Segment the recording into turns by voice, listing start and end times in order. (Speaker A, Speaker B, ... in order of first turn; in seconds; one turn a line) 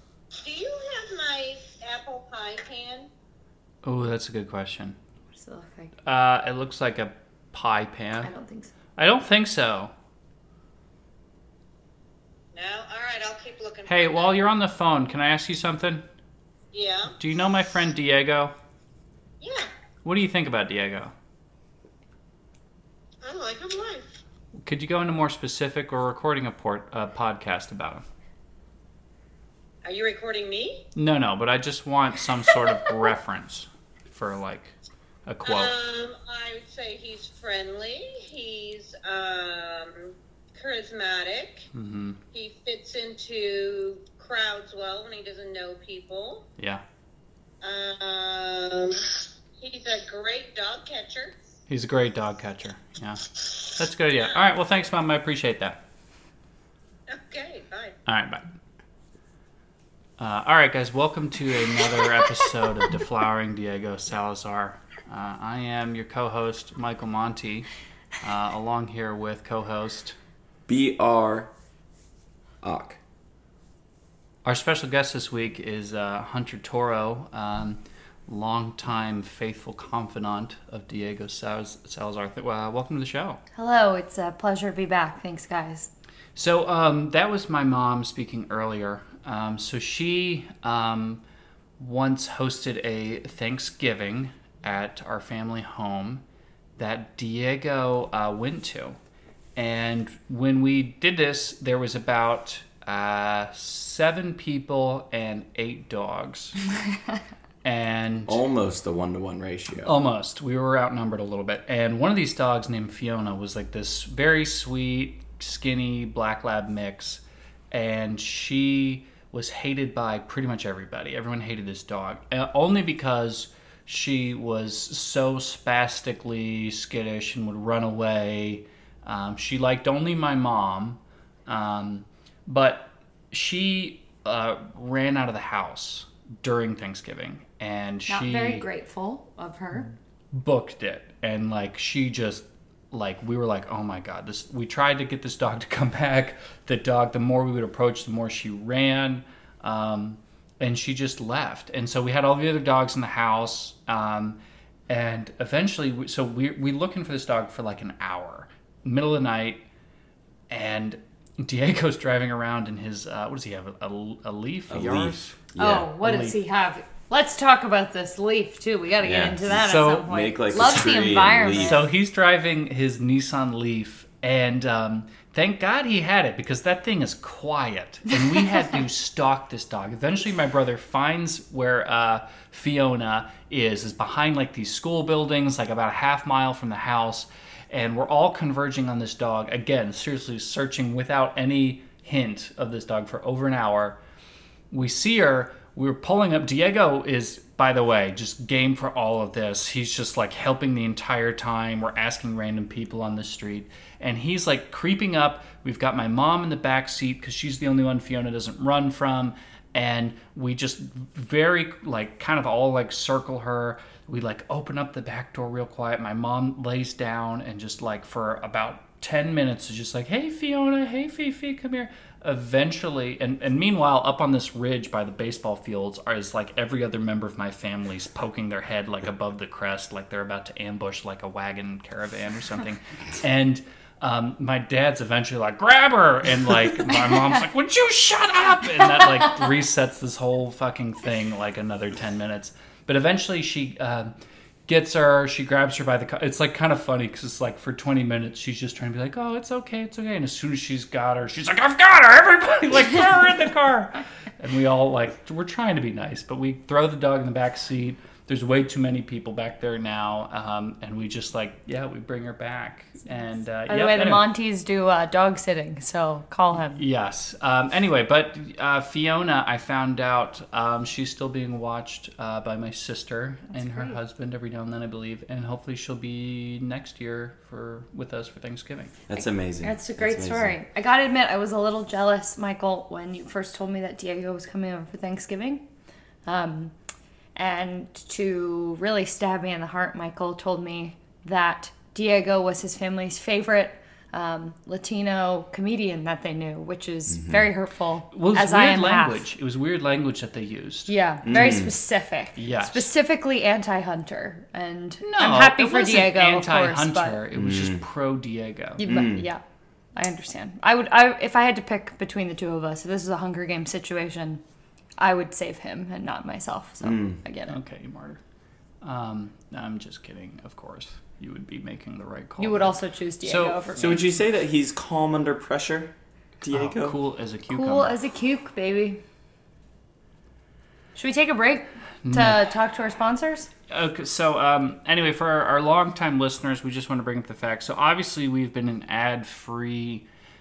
Speaker A: 0.4-3.1
Speaker B: 3.8-5.0
Speaker C: 5.3-5.9
Speaker B: 6.0-8.3
Speaker C: 8.2-8.7
Speaker B: 9.0-9.9
Speaker A: 12.5-14.3
Speaker B: 13.9-16.0
Speaker A: 16.7-17.1
Speaker B: 17.2-18.5
Speaker A: 19.4-19.7
Speaker B: 20.0-21.1
Speaker A: 23.2-24.2
Speaker B: 24.6-28.0
Speaker A: 29.8-30.8
Speaker B: 30.9-35.7
Speaker A: 35.4-41.6
Speaker B: 41.7-42.2
Speaker A: 42.3-46.5
Speaker B: 46.6-46.8
Speaker A: 47.6-51.3
Speaker B: 51.7-55.8
Speaker A: 57.1-57.9
Speaker B: 58.0-58.4
Speaker B: 60.2-67.7
Speaker B: 68.2-70.2
Speaker D: 70.7-71.5
Speaker D: 72.6-73.0
Speaker B: 74.4-83.4
Speaker C: 83.5-85.9
Speaker B: 86.3-91.2
Speaker B: 91.8-96.2
Speaker B: 96.8-99.0
Speaker B: 99.5-106.6
Speaker B: 107.6-108.4
Speaker D: 108.3-109.9
Speaker B: 109.8-138.6
Speaker C: 138.1-139.9
Speaker B: 139.8-154.4
Speaker B: 154.9-159.6
Speaker B: 160.5-165.5
Speaker D: 164.7-165.9
Speaker C: 165.6-171.8
Speaker B: 166.0-166.4
Speaker D: 169.0-171.8
Speaker B: 171.6-194.0
Speaker B: 194.7-244.1
Speaker B: 244.7-264.3
Speaker C: 263.7-266.8
Speaker B: 266.8-279.0
Speaker C: 273.5-274.0
Speaker D: 279.1-280.6
Speaker C: 279.1-285.6
Speaker C: 286.2-286.7
Speaker C: 287.4-299.2
Speaker D: 297.1-297.5
Speaker B: 298.1-301.6
Speaker C: 300.9-307.2
Speaker D: 301.2-301.7
Speaker B: 302.3-302.9
Speaker B: 305.0-308.8
Speaker D: 307.3-307.8
Speaker C: 308.8-309.4
Speaker D: 308.9-309.3
Speaker C: 309.9-314.4
Speaker C: 315.0-317.6
Speaker D: 316.8-317.2
Speaker B: 317.5-318.2
Speaker B: 318.8-323.6
Speaker C: 322.4-324.1
Speaker D: 323.7-326.9
Speaker B: 326.5-327.9
Speaker C: 327.5-329.0
Speaker C: 330.9-333.5
Speaker B: 332.0-332.4
Speaker B: 333.7-340.0